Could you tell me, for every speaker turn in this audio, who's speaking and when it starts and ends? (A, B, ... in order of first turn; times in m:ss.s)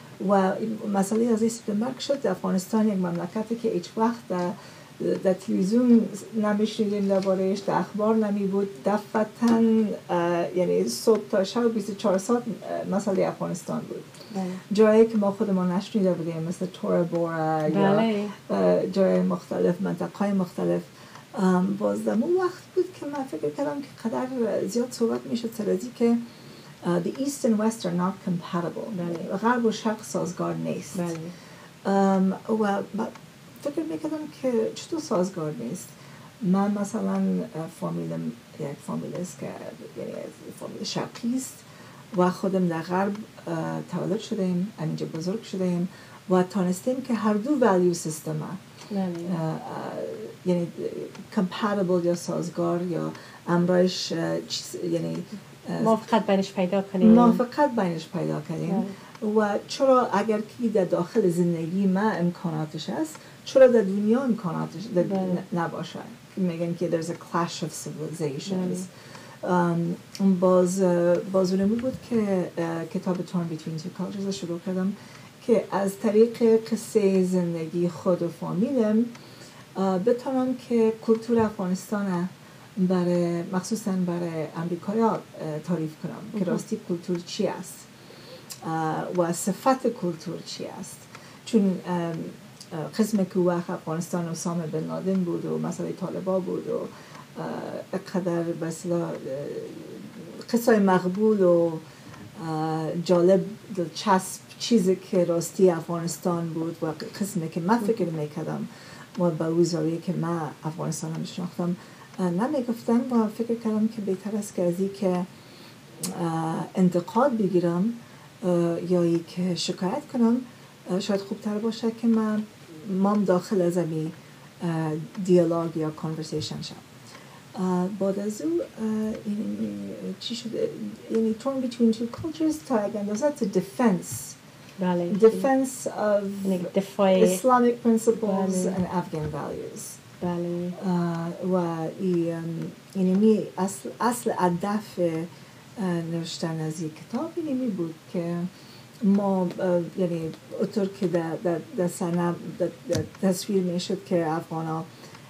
0:00.2-0:14.1 A
0:14.3-0:14.6 B
0:14.7-0:26.3 A
0:17.7-0:18.3 B
0:26.8-0:31.1 A
0:28.9-0:29.2 B
0:31.0-0:31.4 B
0:31.8-0:48.6 A
0:48.9-0:49.4 B
0:49.2-0:56.0 A
0:55.8-0:57.4 B
0:57.0-1:08.9 A
0:58.7-0:59.0 B
1:05.0-1:05.4 B
1:08.5-1:08.9 B
1:09.4-1:19.2 A
1:19.8-1:27.9 A
1:26.4-1:26.6 B
1:28.6-1:41.8 A
1:42.4-1:55.3 A
1:56.0-2:06.9 A
2:07.5-2:14.4 A
2:14.8-2:15.5 B
2:15.1-2:20.0 A
2:16.4-2:17.4 B
2:18.2-2:18.8 B
2:20.2-2:20.8 B
2:20.8-2:28.5 A
2:29.0-2:34.9 A